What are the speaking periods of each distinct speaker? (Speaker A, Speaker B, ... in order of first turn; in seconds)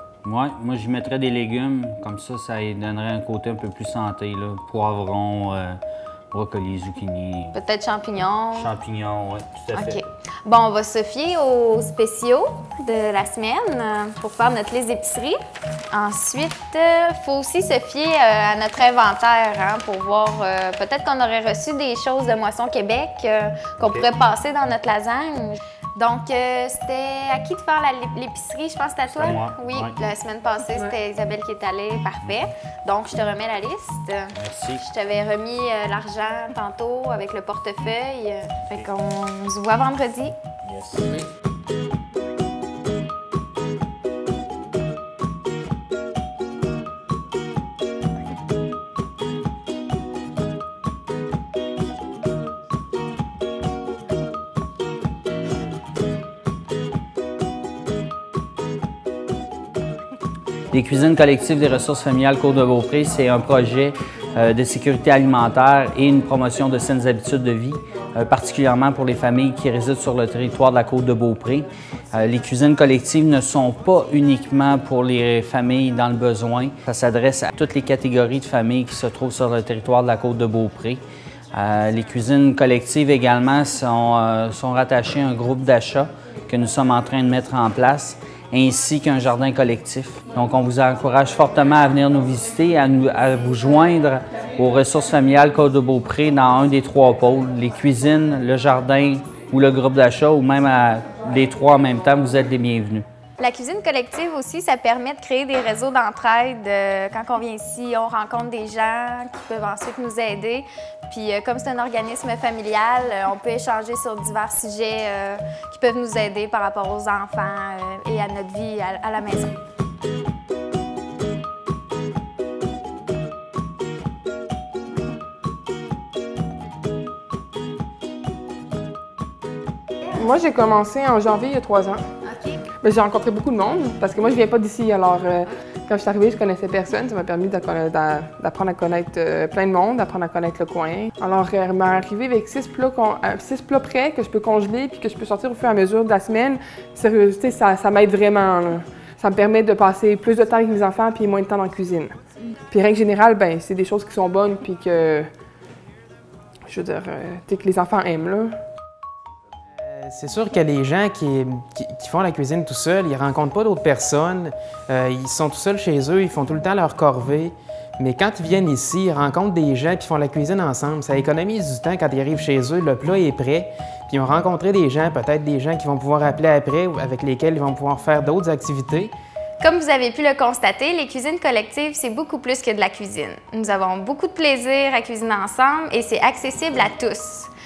Speaker A: 0.2-5.8, 6.3-7.5, 8.6-10.0, 23.8-24.1, 29.1-30.0, 34.4-34.8, 40.6-41.2, 60.7-81.0, 81.5-103.0
Speaker B: 7.5-8.7, 9.7-15.4, 15.9-40.4, 103.4-119.6, 179.6-187.5
Speaker C: 130.1-132.0, 132.8-152.2, 152.7-155.3, 156.7-158.5
Speaker D: 159.8-179.1